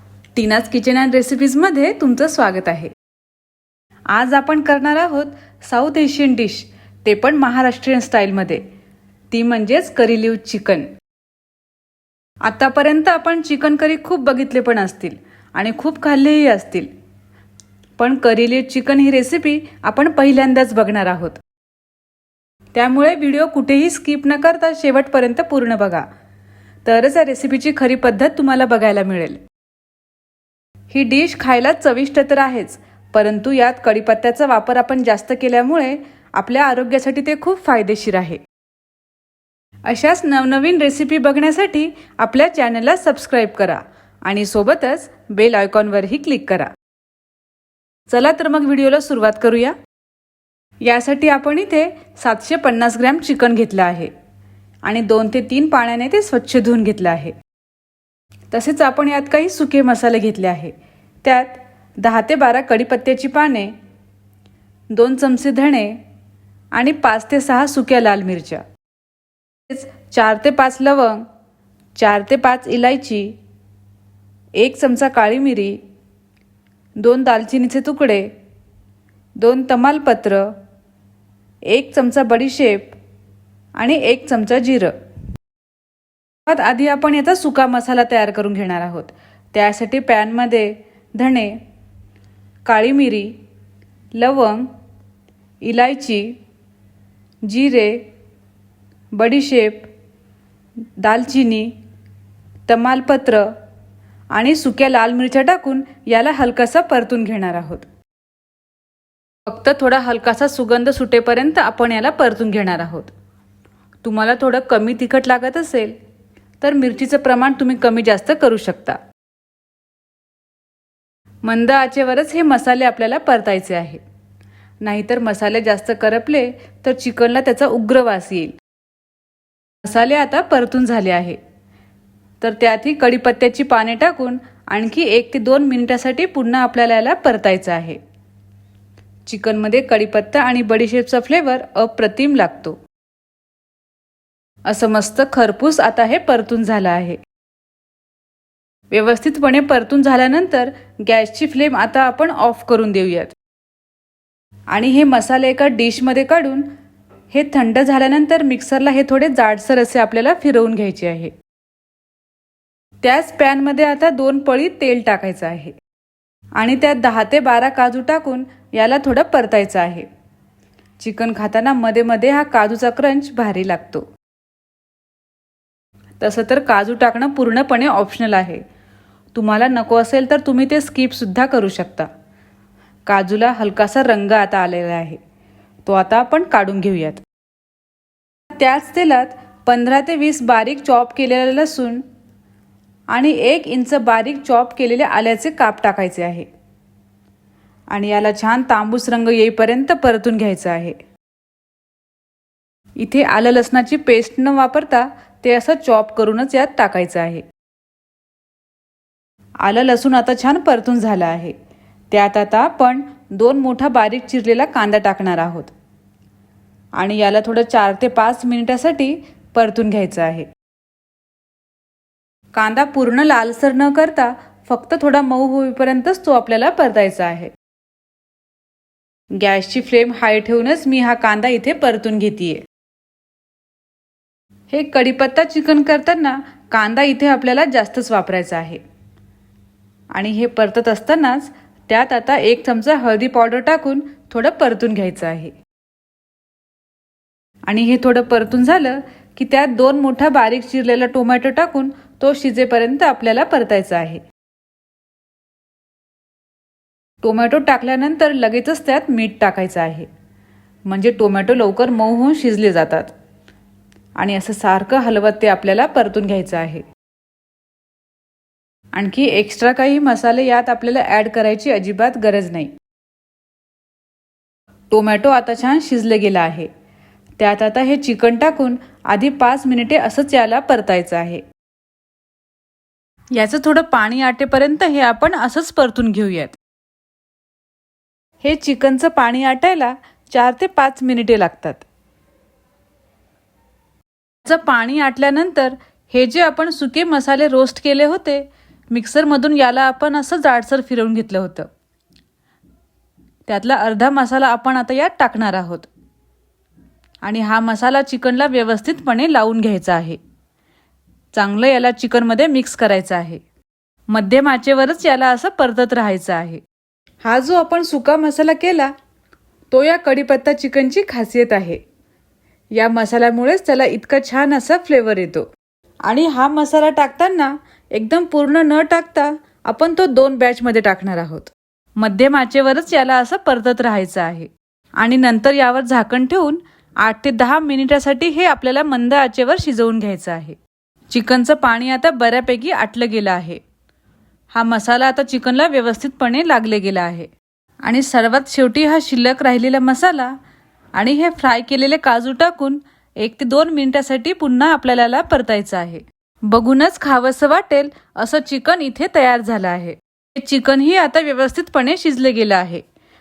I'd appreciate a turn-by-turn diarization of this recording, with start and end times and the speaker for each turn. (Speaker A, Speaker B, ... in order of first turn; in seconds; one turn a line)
Speaker A: 0.3-2.9
Speaker A: 4.1-8.6
Speaker A: 9.3-10.9
Speaker A: 12.4-16.9
Speaker A: 18.0-21.4
Speaker A: 22.7-26.1
Speaker A: 26.9-29.4
Speaker A: 30.9-38.4
Speaker A: 39.9-46.7
Speaker A: 48.1-49.8
Speaker A: 50.8-54.1
Speaker A: 54.8-57.4
Speaker A: 58.5-63.7
Speaker A: 64.9-66.0
Speaker A: 66.7-68.6
Speaker A: 69.7-71.2
Speaker A: 72.0-73.3
Speaker A: 74.6-75.8
Speaker A: 77.0-78.3
Speaker A: 79.4-80.5
Speaker A: 81.7-83.0
Speaker A: 83.8-84.9
Speaker A: 86.5-91.6
Speaker A: 92.6-93.4
Speaker A: 94.1-94.7
Speaker A: 95.6-96.4
Speaker A: 97.4-98.0
Speaker A: 99.1-99.9
Speaker A: 101.0-101.7
Speaker A: 102.7-103.5
Speaker A: 104.3-107.9
Speaker A: 109.5-113.1
Speaker A: 114.0-116.0
Speaker A: 116.6-119.0
Speaker A: 121.4-124.0
Speaker A: 124.8-128.6
Speaker A: 129.8-131.4
Speaker A: 132.4-138.0
Speaker A: 139.3-142.8
Speaker A: 144.7-147.2
Speaker A: 148.9-153.3
Speaker A: 154.7-156.7
Speaker A: 157.3-161.3
Speaker A: 163.0-165.7
Speaker A: 166.6-170.1
Speaker A: 171.0-174.1
Speaker A: 176.2-178.6
Speaker A: 179.3-182.1
Speaker A: 183.1-185.2
Speaker A: 185.8-187.2
Speaker A: 188.5-192.0
Speaker A: 193.1-196.5
Speaker A: 197.9-201.0
Speaker A: 203.0-207.4
Speaker A: 209.6-211.6
Speaker A: 212.1-215.7
Speaker A: 217.0-220.5
Speaker A: 222.5-227.5
Speaker A: 229.3-232.6
Speaker A: 234.7-238.8
Speaker A: 240.1-245.6
Speaker A: 247.7-254.2
Speaker A: 257.2-260.1
Speaker A: 260.9-263.1
Speaker A: 264.2-266.8
Speaker A: 268.9-272.7
Speaker A: 274.9-276.7
Speaker A: 277.4-281.4
Speaker A: 283.4-286.5
Speaker A: 288.4-291.8
Speaker A: 294.4-301.7
Speaker A: 303.5-305.9
Speaker A: 307.2-310.2
Speaker A: 311.3-313.4
Speaker A: 314.1-316.6
Speaker A: 317.2-318.9
Speaker A: 319.7-321.8
Speaker A: 322.7-325.5
Speaker A: 326.0-340.6
Speaker A: 341.1-343.6
Speaker A: 344.5-347.3
Speaker A: 347.8-350.4
Speaker A: 350.9-362.8